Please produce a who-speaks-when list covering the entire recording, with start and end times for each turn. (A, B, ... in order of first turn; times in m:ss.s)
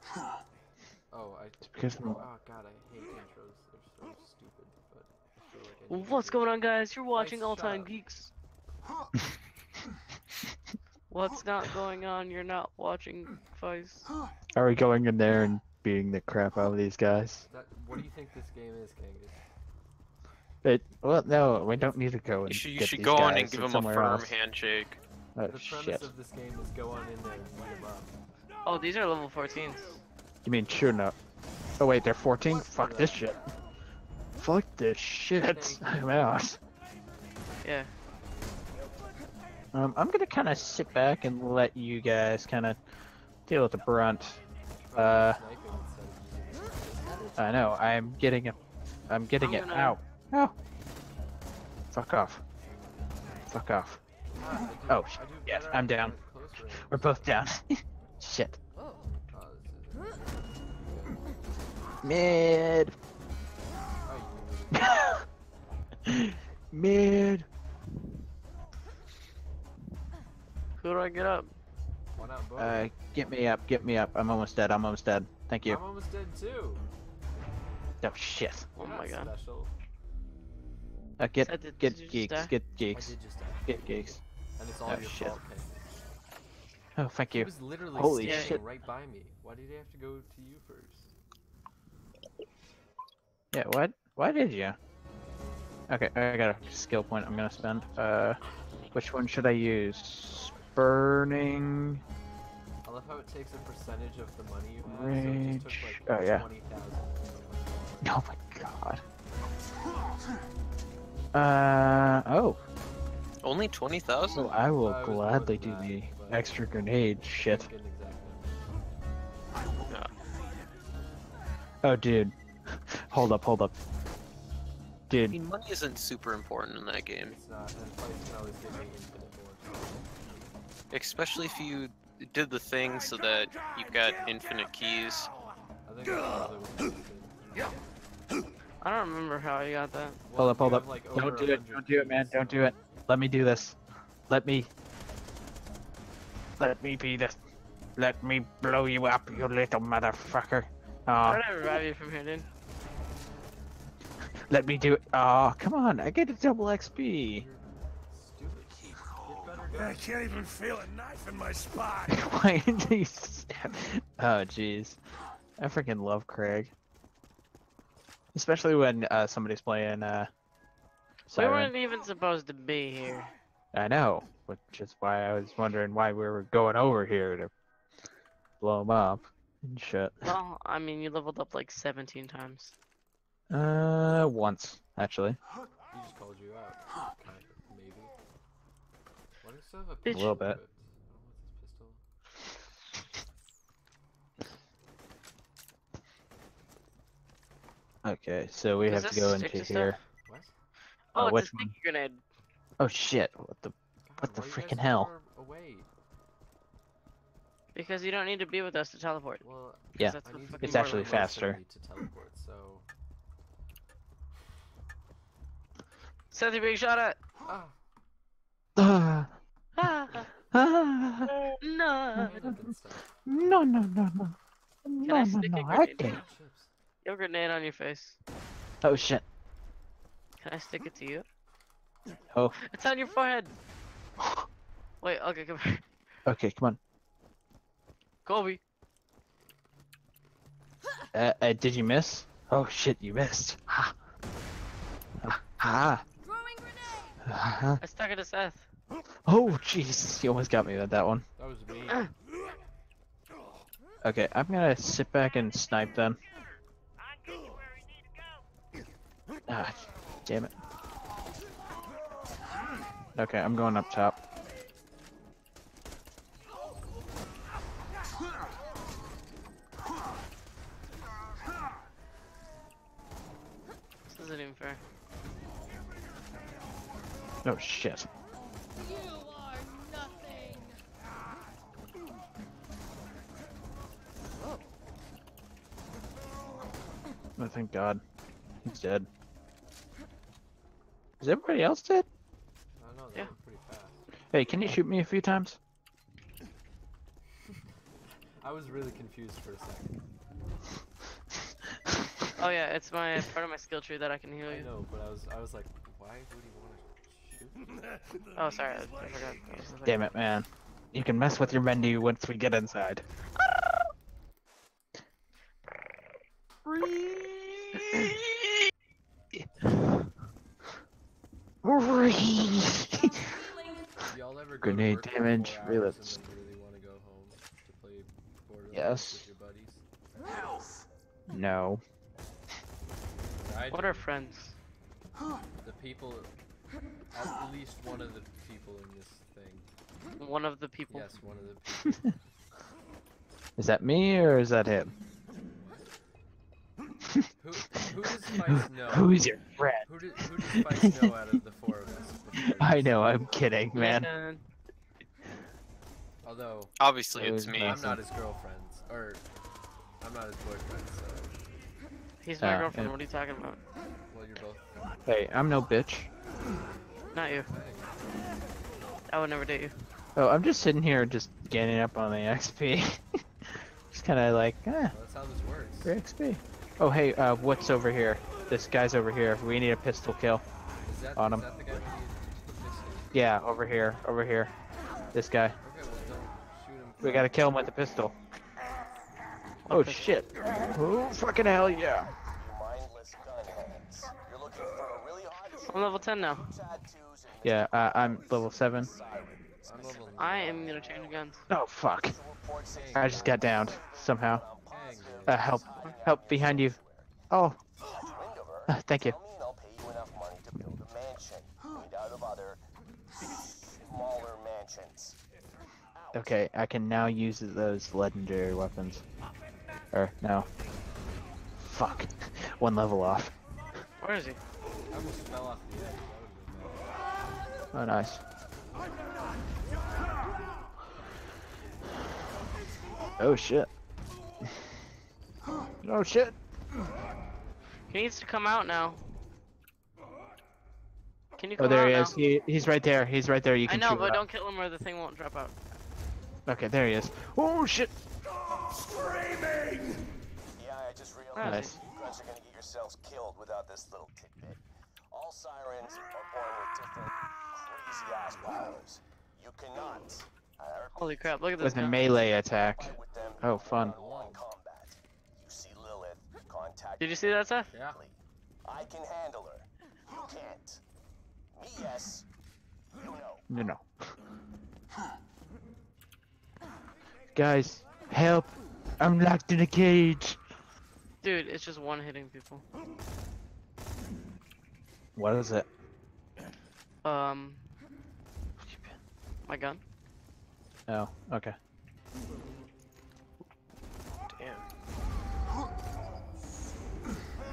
0:01.1-0:06.5 A
0:01.7-0:02.2 B
0:05.9-0:08.3 C
0:07.1-0:07.9 A
0:11.1-0:14.1 C
0:14.6-0:17.4 B
0:17.5-0:19.4 A
0:20.6-0:24.4 B
0:22.5-0:25.0 D
0:25.4-0:26.1 B
0:25.5-0:28.1 A
0:28.7-0:30.0 C
0:30.4-0:31.2 B
0:31.8-0:33.4 B
0:32.4-0:33.4 A
0:34.4-0:36.6 B
0:35.4-0:36.3 A
0:37.6-0:37.9 C
0:39.7-0:42.8 B
0:43.5-0:44.4 B
0:44.9-0:47.4 A
0:44.9-0:45.4 B
0:47.4-0:48.6 B
0:49.1-0:50.5 B
0:49.4-0:50.0 C
0:51.9-0:52.4 B
0:53.5-0:54.0 B
0:54.3-0:57.4 A
0:54.9-0:56.2 B
0:56.8-0:58.6 B
0:59.3-1:01.3 A
1:02.0-1:03.0 B
1:04.0-1:05.2 A
1:04.7-1:05.2 B
1:06.1-1:07.5 B
1:10.8-1:11.5 C
1:12.2-1:13.0 A
1:12.6-1:15.8 B
1:15.6-1:16.9 A
1:18.0-1:18.7 B
1:18.8-1:19.3 C
1:18.8-1:19.7 A
1:21.2-1:24.2 B
1:21.4-1:22.5 C
1:22.9-1:24.0 A
1:24.6-1:25.9 A
1:24.9-1:25.4 B
1:27.0-1:28.6 B
1:27.3-1:31.1 A
1:28.2-1:28.6 C
1:33.5-1:34.8 B
1:35.9-1:38.4 B
1:38.9-1:42.0 B
1:42.8-1:48.2 A
1:44.8-1:46.5 B
1:48.0-1:49.0 B
1:51.3-1:52.6 B
1:53.4-1:54.4 D
1:54.3-1:57.7 B
1:54.7-1:58.6 A
1:59.9-2:00.1 D
2:01.8-2:02.4 B
2:02.9-2:03.7 B
2:05.1-2:05.4 B
2:05.3-2:07.4 D
2:07.2-2:10.0 A
2:10.9-2:15.3 D
2:15.8-2:17.8 A
2:18.8-2:20.2 C
2:20.2-2:22.8 A
2:20.4-2:23.8 B
2:24.3-2:24.7 B
2:26.6-2:27.4 B
2:28.0-2:31.8 B
2:31.2-2:32.5 C
2:34.5-2:37.5 B
2:37.2-2:40.5 A
2:42.0-2:45.0 B
2:45.6-2:46.7 B
2:48.3-2:50.3 B
2:51.3-2:51.7 B
2:51.3-2:53.3 C
2:53.7-2:57.5 B
2:58.6-3:00.4 B
3:00.2-3:02.7 C
3:03.5-3:05.4 B
3:05.9-3:08.1 A
3:09.4-3:12.0 A
3:10.1-3:10.4 C
3:10.1-3:10.6 B
3:18.0-3:20.0 B
3:18.8-3:20.0 C
3:20.2-3:20.5 A
3:21.2-3:22.2 C
3:21.2-3:21.7 B
3:22.8-3:25.1 B
3:24.0-3:25.9 A
3:27.8-3:29.4 C
3:29.4-3:32.9 A
3:30.0-3:31.3 C
3:30.0-3:31.6 B
3:36.3-3:37.2 C
3:37.4-3:37.8 A
3:38.8-3:41.4 B
3:39.8-3:40.3 C
3:41.3-3:42.4 C
3:42.2-3:43.7 A
3:43.3-3:46.2 B
3:45.1-3:46.2 C
3:45.9-3:46.7 A
3:47.0-3:48.2 C
3:48.8-3:49.2 B
3:50.4-3:51.2 C
3:52.6-3:53.6 C
3:55.0-3:55.8 C
3:56.3-3:56.8 B
3:58.2-3:58.6 C
4:01.1-4:03.9 B
4:05.2-4:06.0 B
4:07.2-4:07.8 B
4:07.8-4:08.7 C
4:09.3-4:11.2 B
4:11.4-4:12.1 A
4:14.0-4:16.2 B
4:19.5-4:20.5 B
4:23.2-4:24.2 B
4:34.1-4:34.8 C
4:37.4-4:38.1 B
4:47.4-4:48.0 B
4:48.6-4:49.1 B
4:51.2-4:52.1 B
4:52.8-4:54.1 A
4:54.3-4:55.6 B
4:58.4-4:59.9 A
5:02.4-5:04.7 C
5:04.5-5:07.8 A
5:08.4-5:10.1 C
5:09.6-5:10.2 A
5:09.9-5:13.0 B
5:11.3-5:11.8 A
5:16.7-5:18.3 B
5:21.6-5:23.3 B
5:24.1-5:29.8 A
5:24.6-5:26.2 B
5:28.7-5:29.2 B
5:31.3-5:31.8 B
5:33.4-5:34.1 A
5:33.7-5:34.6 C
5:35.6-5:36.3 A
5:37.1-5:39.7 A
5:40.2-5:41.1 C
5:40.9-5:42.2 A
5:43.6-5:44.9 B
5:45.5-5:45.9 A
5:47.4-5:49.3 A
5:48.4-5:51.1 B
5:49.8-5:53.0 A
5:52.4-5:54.1 B
5:53.7-5:54.4 C
5:56.2-5:56.8 A
5:56.8-5:57.8 D
5:57.2-5:58.0 B
5:57.6-5:59.2 A
6:00.0-6:01.3 A
6:02.2-6:03.6 C
6:02.4-6:02.9 B
6:04.1-6:04.9 A
6:05.1-6:06.1 B
6:07.1-6:07.5 C
6:07.3-6:08.0 A
6:09.1-6:09.7 C
6:10.2-6:15.0 B
6:14.9-6:16.0 A
6:15.8-6:20.4 B
6:20.8-6:23.2 A
6:21.2-6:21.5 B
6:23.1-6:24.5 B
6:25.1-6:25.6 B
6:25.6-6:27.6 A
6:27.0-6:28.2 B
6:29.7-6:30.2 C
6:29.7-6:32.1 B
6:32.5-6:35.8 E
6:35.6-6:36.6 C
6:36.5-6:40.6 E
6:37.4-6:38.9 B
6:39.6-6:41.1 A
6:40.2-6:41.5 C
6:41.5-6:42.2 B
6:42.2-6:47.1 E
6:42.6-6:43.5 A
6:42.9-6:44.5 B
6:44.7-6:45.6 A
6:45.3-6:46.8 B
6:47.3-6:47.6 B
6:48.0-6:48.6 E
6:48.7-6:49.2 B
6:49.2-6:52.6 E
6:53.7-6:55.1 E
6:56.1-6:59.0 B
6:59.9-7:00.5 B
7:01.6-7:03.3 B
7:04.0-7:04.4 C
7:04.9-7:06.8 A
7:07.7-7:08.2 B
7:13.2-7:13.7 B
7:15.8-7:16.4 B
7:17.9-7:19.0 C
7:21.4-7:22.2 C
7:21.6-7:24.2 B
7:23.7-7:25.6 C
7:26.5-7:27.9 B
7:30.6-7:34.6 E
7:31.4-7:31.8 C
7:31.4-7:31.8 B
7:35.2-7:40.2 E
7:41.0-7:42.1 C
7:41.6-7:44.0 B
7:42.7-7:47.0 E
7:43.8-7:44.5 A
7:47.0-7:47.7 C
7:47.7-7:48.0 A
7:48.7-7:49.6 E
7:50.2-7:50.8 E
7:51.6-7:52.2 E
7:53.5-7:53.9 B
7:57.4-8:00.4 B
8:01.2-8:02.6 C
8:05.2-8:05.7 B
8:07.0-8:07.7 C
8:08.6-8:08.9 B
8:09.5-8:09.8 C
8:10.9-8:11.6 B